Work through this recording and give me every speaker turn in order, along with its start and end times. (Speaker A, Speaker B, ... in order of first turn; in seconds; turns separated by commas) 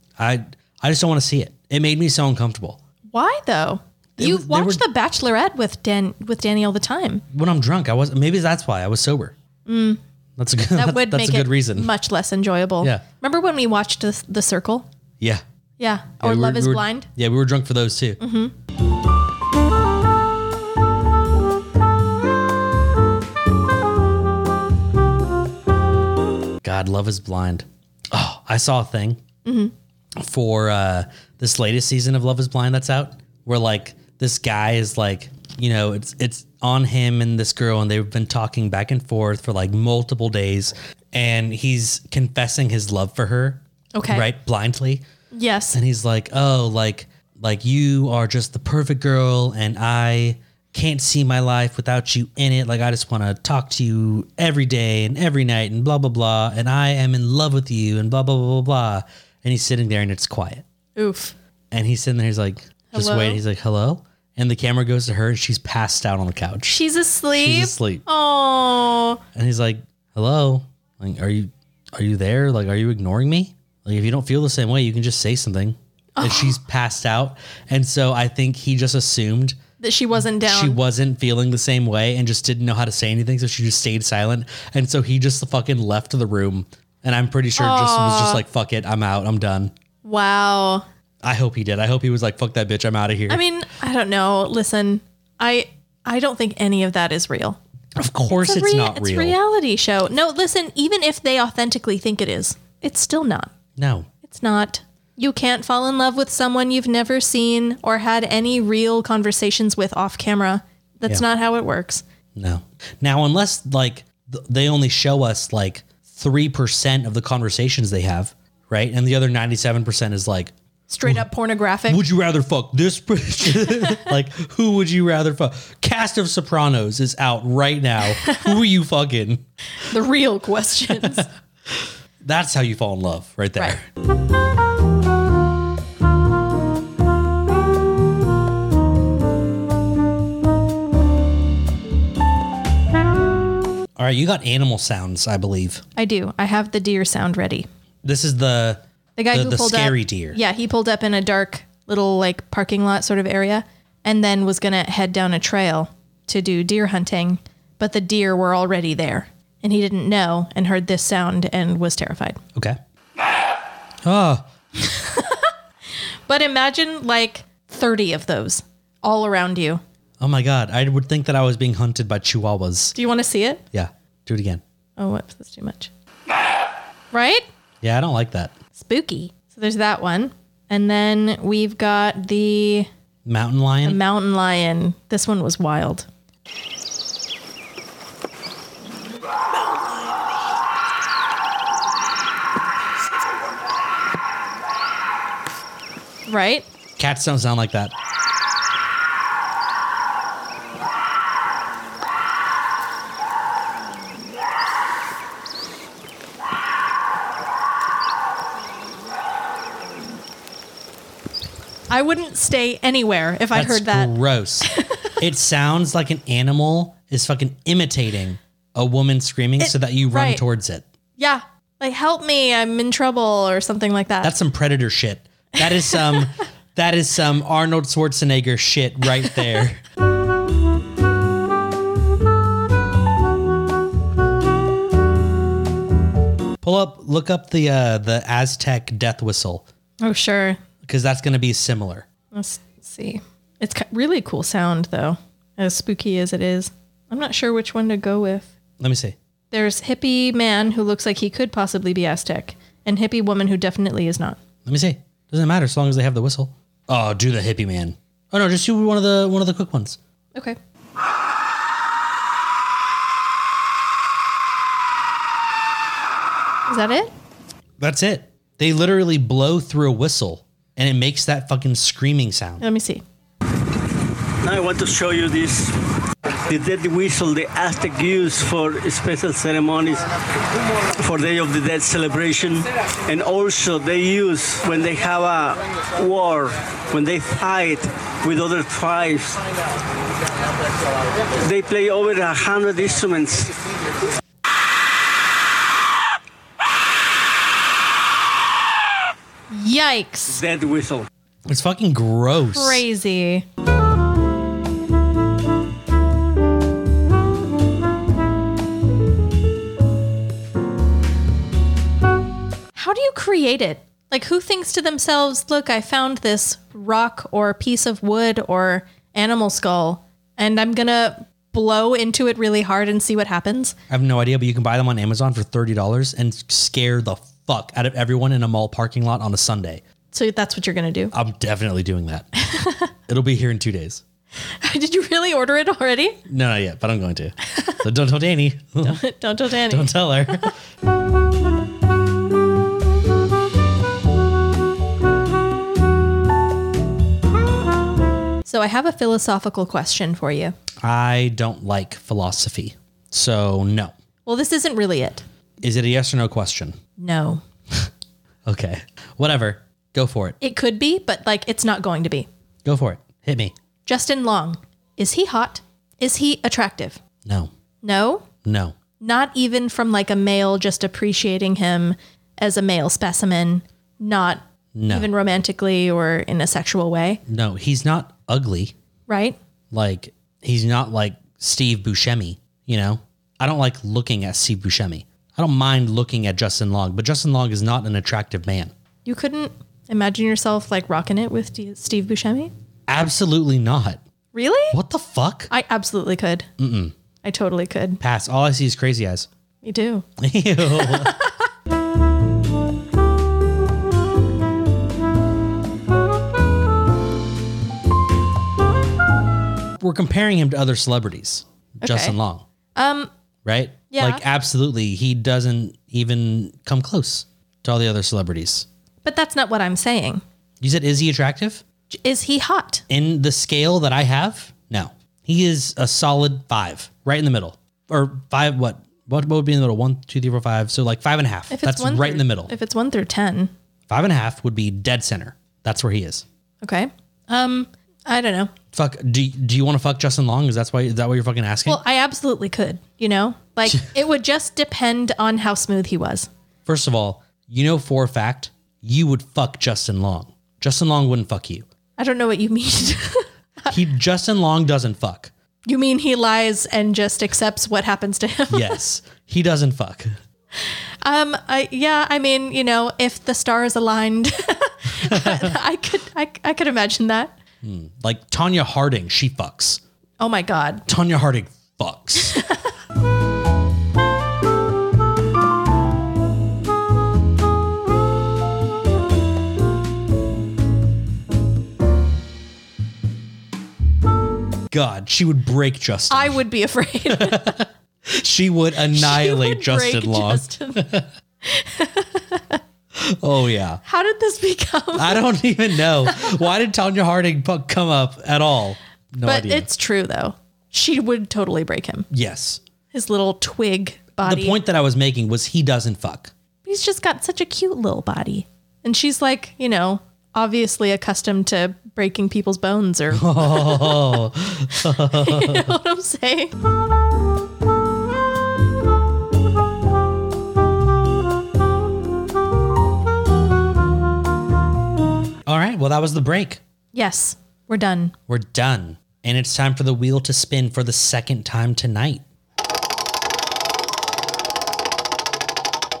Speaker A: 0.2-2.8, Speaker B: 3.1-7.2, Speaker A: 4.2-4.8, Speaker A: 7.3-9.3, Speaker B: 9.7-10.0, Speaker A: 10.4-11.9, Speaker B: 10.7-14.9, Speaker B: 15.8-17.1, Speaker A: 16.2-18.2, Speaker B: 18.2-18.5, Speaker A: 26.6-29.2, Speaker B: 29.4-29.7, Speaker A: 30.1-45.0, Speaker B: 43.9-44.3, Speaker B: 45.3-45.8, Speaker A: 45.7-60.6, Speaker B: 61.0-61.3, Speaker A: 61.7-66.8, Speaker B: 62.9-63.4, Speaker B: 66.7-69.2, Speaker A: 67.3-68.0, Speaker A: 69.3-79.6, Speaker B: 76.2-76.5, Speaker B: 79.8-80.8, Speaker A: 80.4-89.7, Speaker B: 87.6-88.4, Speaker B: 90.0-90.8, Speaker A: 91.2-93.4, Speaker B: 93.3-97.6, Speaker A: 98.0-99.3, Speaker B: 98.3-103.5, Speaker A: 103.8-104.1, Speaker B: 104.2-112.0, Speaker A: 112.3-120.5, Speaker B: 120.9-122.0, Speaker A: 121.9-129.4, Speaker B: 123.6-124.1, Speaker B: 128.1-128.5, Speaker B: 129.8-131.3, Speaker A: 130.9-133.8, Speaker A: 143.9-145.8, Speaker B: 146.0-147.7, Speaker A: 148.0-150.4, Speaker B: 149.2-162.4, Speaker A: 164.0-164.4, Speaker B: 164.8-165.5, Speaker B: 166.3-169.8, Speaker A: 170.2-172.9, Speaker B: 172.9-173.6, Speaker A: 173.7-174.6, Speaker B: 175.0-175.9, Speaker B: 177.1-177.5, Speaker A: 177.8-178.5, Speaker B: 178.7-182.9, Speaker A: 183.2-184.0, Speaker B: 183.8-186.1, Speaker B: 196.3-196.7, Speaker A: 197.0-197.9, Speaker B: 211.9-215.1, Speaker A: 213.5-214.7, Speaker A: 215.2-220.8, Speaker B: 219.6-220.4, Speaker B: 221.2-224.3, Speaker A: 224.2-229.8, Speaker B: 225.9-226.2, Speaker A: 236.6-239.6, Speaker B: 240.0-240.6, Speaker A: 240.8-242.1, Speaker B: 242.3-248.5, Speaker A: 248.8-249.2, Speaker B: 249.5-254.4, Speaker A: 254.6-260.0, Speaker B: 266.7-267.1, Speaker A: 267.8-272.6, Speaker B: 272.6-273.0, Speaker C: 274.4-275.8, Speaker C: 276.5-280.1, Speaker C: 280.9-289.4, Speaker C: 291.4-293.6, Speaker B: 299.5-300.4, Speaker C: 300.3-301.1, Speaker A: 301.5-302.8, Speaker B: 302.5-303.4, Speaker B: 312.7-323.8, Speaker A: 323.9-329.8, Speaker B: 330.1-331.1, Speaker A: 331.1-332.3, Speaker B: 332.4-332.9, Speaker A: 333.1-334.0, Speaker B: 334.5-336.2, Speaker A: 336.2-339.0, Speaker B: 338.8-340.5, Speaker A: 339.6-340.5, Speaker B: 348.4-350.5, Speaker A: 350.8-353.9, Speaker B: 354.2-355.2, Speaker A: 355.6-356.8, Speaker B: 357.0-357.4, Speaker A: 358.4-360.4, Speaker B: 360.4-362.3, Speaker A: 362.6-363.5, Speaker B: 363.9-367.0, Speaker A: 367.2-367.5, Speaker B: 367.8-368.2, Speaker A: 368.4-368.7, Speaker B: 369.0-377.2, Speaker A: 374.7-375.1, Speaker A: 377.3-378.7, Speaker B: 379.1-379.4, Speaker A: 379.7-388.7, Speaker B: 389.0-392.5, Speaker A: 392.9-394.0, Speaker B: 394.3-394.8, Speaker A: 394.7-395.5, Speaker B: 395.5-396.5, Speaker A: 396.6-396.9, Speaker B: 397.2-398.0, Speaker A: 398.0-399.3, Speaker B: 399.6-400.1, Speaker A: 400.2-401.1, Speaker B: 400.6-401.4, Speaker A: 409.8-412.4, Speaker B: 411.8-412.1, Speaker B: 412.8-413.1, Speaker A: 413.4-418.7, Speaker B: 413.9-414.2, Speaker B: 419.0-420.2, Speaker A: 420.6-421.6, Speaker B: 421.9-422.8, Speaker A: 422.9-432.5, Speaker B: 431.5-433.5, Speaker A: 433.9-436.2, Speaker B: 436.6-438.5, Speaker A: 438.7-441.8, Speaker B: 441.6-446.3, Speaker A: 446.6-451.6, Speaker B: 452.0-453.7, Speaker A: 453.7-455.3, Speaker B: 455.6-458.8, Speaker A: 458.5-460.2, Speaker B: 460.6-467.3, Speaker A: 465.0-465.6, Speaker A: 467.6-469.8, Speaker B: 470.2-470.8, Speaker A: 470.9-472.4, Speaker B: 472.2-472.7, Speaker A: 484.7-486.4, Speaker B: 486.1-487.6, Speaker A: 487.1-491.1, Speaker B: 488.9-490.9, Speaker B: 491.4-492.6, Speaker A: 492.9-493.8, Speaker B: 493.8-495.3, Speaker A: 494.9-499.7, Speaker B: 496.0-496.4, Speaker B: 499.2-502.1, Speaker A: 502.1-502.6, Speaker B: 502.9-504.6, Speaker A: 504.2-506.3, Speaker B: 506.6-516.5, Speaker A: 513.1-515.7, Speaker A: 525.4-526.6, Speaker B: 526.9-528.1, Speaker A: 528.3-532.2